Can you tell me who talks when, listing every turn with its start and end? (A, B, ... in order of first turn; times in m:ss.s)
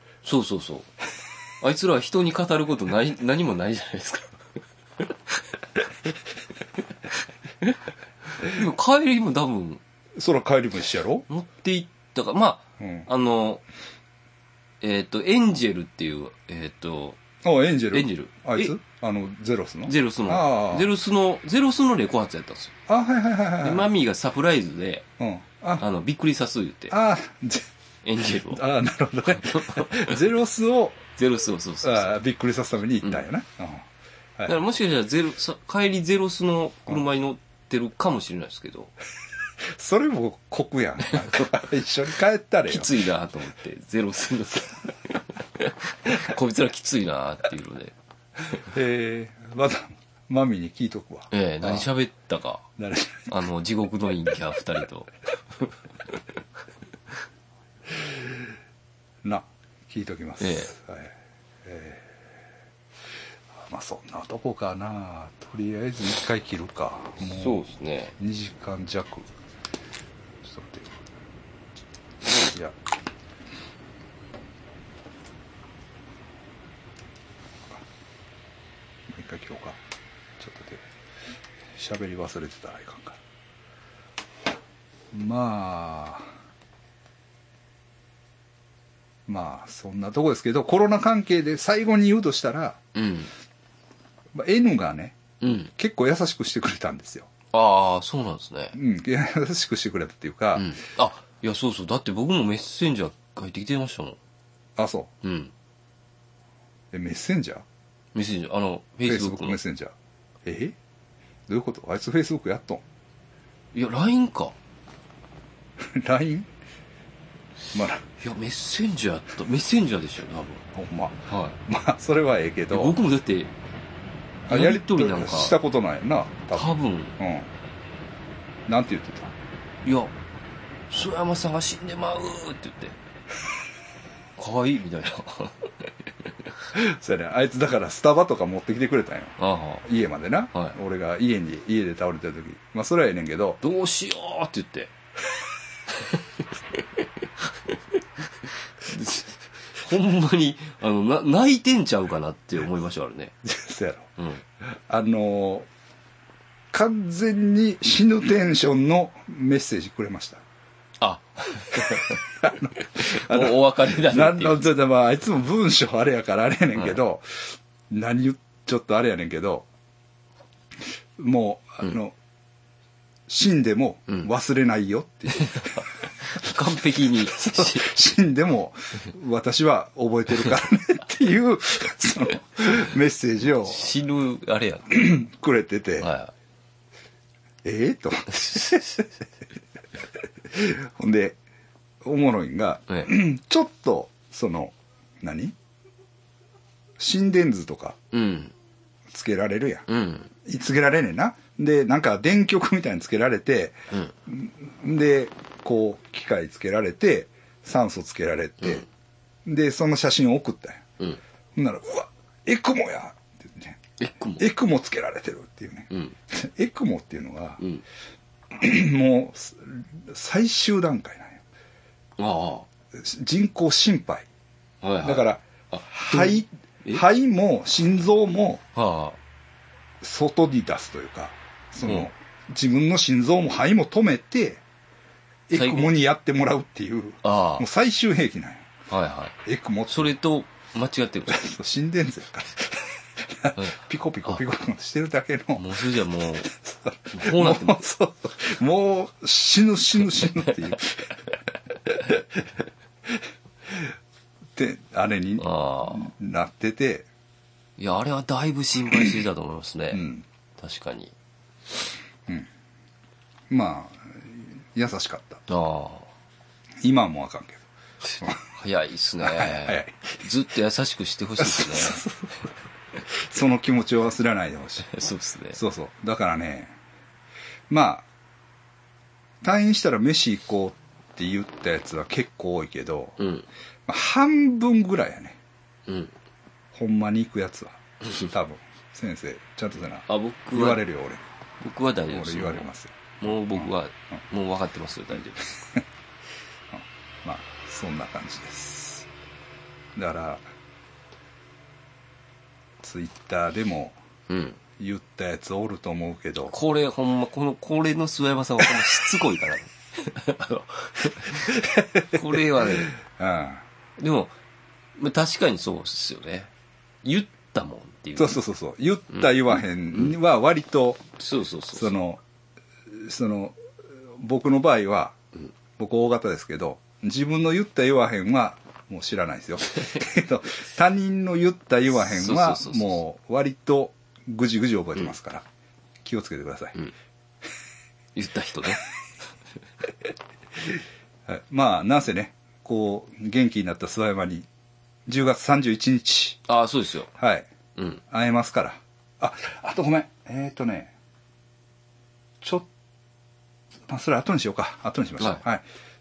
0:00.2-0:00.9 A
0:01.6-0:04.4 A
0:05.0-0:06.1 A
0:07.1-0:07.8 A
0:08.4-0:09.8 A
0:10.2-0:11.3 B
0:11.3-0:13.6 A
0:12.8-0:13.1 B
0:14.8-0:17.2 A
0:17.4-0:20.9 B
0:17.9-0:18.7 A
0:19.8-0:22.7 A
0:22.9-0:23.9 B
0:23.6-0:25.0 A
0:25.2-0:25.8 B
0:25.8-0:26.9 A
0:26.9-0:27.7 B
0:28.0-0:28.6 A
0:28.5-0:31.1 B
0:29.3-0:30.1 A
0:31.2-0:32.1 A
0:31.8-0:33.8 B
0:34.4-0:38.9 A
0:39.7-0:42.9 B
0:42.7-0:47.9 A
0:48.6-0:51.9 B
0:51.3-0:52.7 A
0:52.8-0:53.3 B
0:53.3-0:56.2 A
0:59.2-1:02.2 B
1:00.4-1:00.7 A
1:03.5-1:07.6 B
1:07.2-1:08.1 A
1:08.2-1:09.3 B
1:10.4-1:10.9 B
1:12.5-1:12.8 B
1:19.1-1:19.8 B
1:20.4-1:20.8 B
1:21.7-1:23.2 B
1:25.1-1:26.3 B
1:29.3-1:32.8 B
1:32.9-1:33.3 A
1:34.3-1:35.2 B
1:35.4-1:35.7 A
1:35.7-1:37.3 B
1:37.5-1:38.7 A
1:38.7-1:40.8 B
1:40.5-1:44.2 A
1:44.8-1:45.1 B
1:45.2-1:45.5 A
1:46.9-1:47.6 B
1:48.1-1:49.6 A
1:49.0-1:49.9 B
1:50.4-1:50.8 B
1:51.5-1:52.8 B
1:53.7-1:54.5 A
1:55.8-1:56.5 B
1:57.7-1:58.0 B
1:58.2-2:00.6 A
2:00.6-2:03.0 B
2:01.3-2:01.6 A
2:02.7-2:03.5 A
2:04.5-2:07.5 B
2:04.5-2:05.6 A
2:06.5-2:07.2 A
2:08.7-2:09.3 B
2:09.8-2:10.1 A
2:10.9-2:13.0 A
2:14.4-2:16.6 A
2:16.7-2:23.6 B
2:19.4-2:19.8 A
2:23.6-2:24.9 A
2:25.9-2:33.3 A
2:33.4-2:34.1 B
2:34.2-2:34.4 A
2:34.6-2:35.7 B
2:36.7-2:40.4 B
2:41.0-2:44.7 A
2:41.8-2:49.6 B
2:51.2-2:52.1 B
2:53.3-2:55.8 B
2:55.4-2:58.0 A
2:57.4-3:03.9 B
3:03.4-3:05.0 A
3:04.9-3:06.1 B
3:06.0-3:06.3 A
3:07.6-3:09.1 B
3:10.5-3:11.4 B
3:12.0-3:15.6 B
3:17.0-3:18.0 B
3:18.1-3:18.5 A
3:19.1-3:19.8 B
3:19.9-3:20.3 A
3:20.4-3:28.8 B
3:29.4-3:30.8 B
3:31.5-3:33.8 B
3:34.0-3:34.5 A
3:34.4-3:37.6 B
3:38.5-3:41.4 B
3:42.2-3:42.7 A
3:42.9-3:44.2 B
3:44.8-3:47.0 A
3:45.0-3:48.6 B
3:48.7-3:49.2 A
3:50.0-3:54.6 B
3:55.5-3:58.7 B
3:55.5-3:55.9 A
3:57.2-3:57.6 A
3:58.9-3:59.4 A
3:59.4-4:00.1 B
3:59.9-4:01.4 A
4:01.3-4:05.8 B
4:03.6-4:04.4 A
4:05.6-4:06.5 A
4:06.4-4:11.2 B
4:07.1-4:07.8 A
4:11.9-4:12.2 B
4:14.6-4:17.1 B
4:15.4-4:16.1 A
4:17.8-4:20.0 A
4:19.9-4:20.2 B
4:20.6-4:21.1 A
4:23.5-4:25.4 B
4:25.5-4:26.1 A
4:26.8-4:27.6 B
4:28.1-4:32.0 A
4:29.2-4:30.2 B
4:31.4-4:32.5 B
4:33.0-4:34.9 B
4:34.8-4:35.6 A
4:35.5-4:36.7 B
4:37.7-4:38.0 B
4:39.4-4:43.2 B
4:43.2-4:43.5 A
4:43.9-4:45.4 B
4:45.9-4:46.1 A
4:46.7-4:51.2 B
4:50.1-4:50.8 A
4:51.6-4:52.6 A
4:52.1-4:53.0 B
4:53.2-4:55.5 A
4:56.7-4:59.1 B
5:00.0-5:00.4 B
5:02.8-5:04.0 B
5:04.3-5:04.6 A
5:04.8-5:06.5 B
5:06.5-5:12.9 A
5:11.5-5:13.6 B
5:14.0-5:14.4 A
5:15.0-5:16.5 A
5:17.0-5:18.4 A
5:18.2-5:21.0 B
5:21.2-5:21.9 A
5:21.7-5:22.2 B
5:22.9-5:23.6 B
5:24.2-5:25.2 B
5:25.8-5:35.4 B
5:29.8-5:30.0 A
5:32.0-5:33.0 A
5:36.0-5:36.8 B
5:38.1-5:38.8 A
5:41.3-5:44.5 B
5:45.1-5:46.4 B
5:46.5-5:47.1 A
5:47.1-5:47.5 B
5:47.8-5:48.0 A
5:48.1-5:50.9 B
5:52.4-5:52.7 B
5:53.9-5:55.6 B